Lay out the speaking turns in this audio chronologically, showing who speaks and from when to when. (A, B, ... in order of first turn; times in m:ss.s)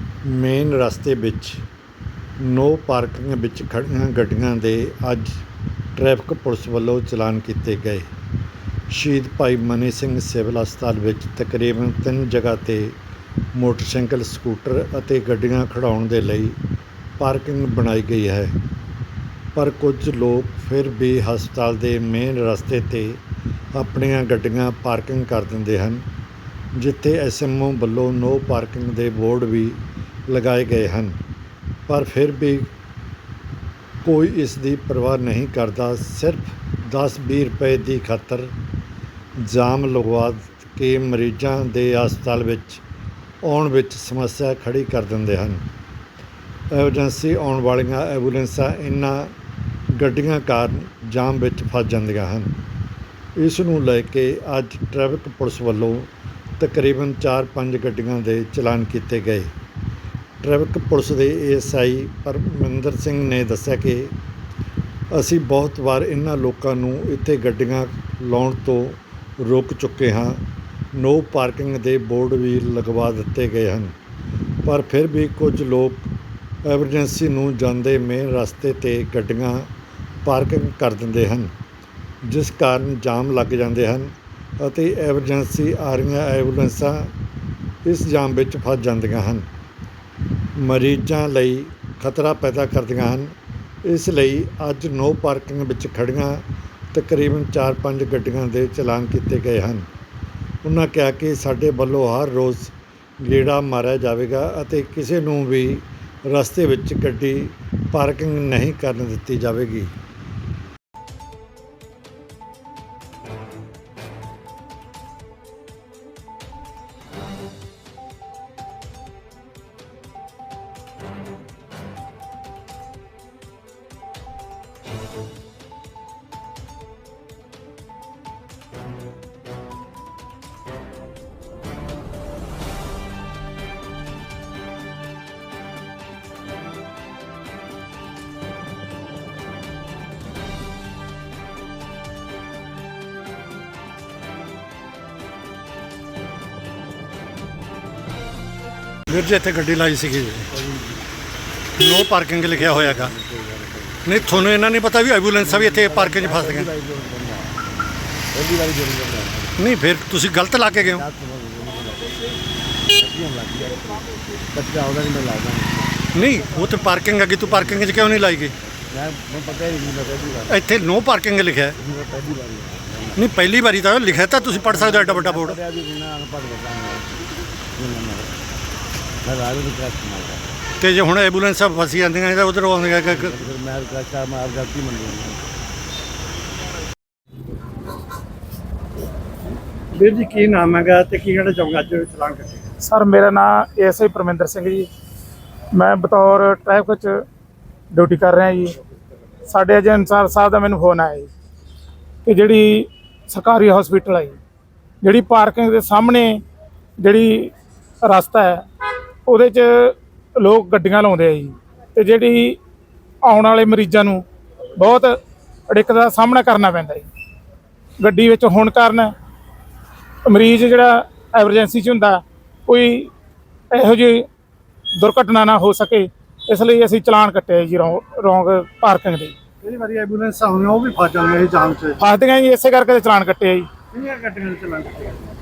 0:00.2-0:01.6 A
0:02.4-0:05.4 A
0:05.9-0:08.1 A
0:08.9-0:12.9 A
0:13.5-0:16.6 A
0:17.2-0:18.6 A
0:19.5-0:23.2 A
0:23.7-0:26.0 A
0:26.7-0:31.2 A
0:31.9-0:32.7 A
0:34.0-0:38.5 A
0:39.4-0:42.8 A
0:43.4-0:45.6 A
0:46.7-0:49.3 A
0:49.9-0:52.5 A
0:53.4-0:59.5 A
1:00.4-1:04.1 A
1:05.1-1:10.4 A
1:10.9-1:14.0 A
1:14.6-1:16.1 A
1:16.6-1:19.7 A
1:20.2-1:21.5 A
1:22.2-1:27.1 A
1:27.8-1:29.5 A
1:30.6-1:39.9 A
1:40.6-1:49.9 A
2:29.1-2:30.5 A
2:31.7-2:33.1 A
2:32.5-2:34.3 B
2:34.0-2:36.7 A
2:35.4-2:37.6 B
2:38.3-2:39.6 B
2:39.6-2:41.0 A
2:40.7-2:42.2 B
2:42.9-2:46.1 B
2:46.1-2:48.5 A
2:47.6-2:48.1 B
2:48.9-2:50.6 B
2:50.5-2:51.8 A
2:51.8-2:53.3 B
2:53.2-2:55.6 A
2:54.6-2:58.3 B
2:59.2-3:00.5 B
3:00.8-3:03.4 A
3:03.1-3:05.4 B
3:10.0-3:12.7 A
3:12.8-3:14.9 C
3:15.7-3:17.2 C
3:17.9-3:18.8 C
3:19.5-3:21.3 C
3:22.2-3:24.4 C
3:25.0-3:26.4 C
3:27.0-3:28.6 C
3:29.2-3:32.6 C
3:33.2-3:34.2 C
3:34.8-3:37.1 C
3:38.0-3:39.1 C
3:40.2-3:43.1 C
3:43.7-3:44.3 C
3:45.0-3:49.3 C
3:49.6-3:52.0 A
3:52.0-3:53.7 C
3:53.9-3:55.2 A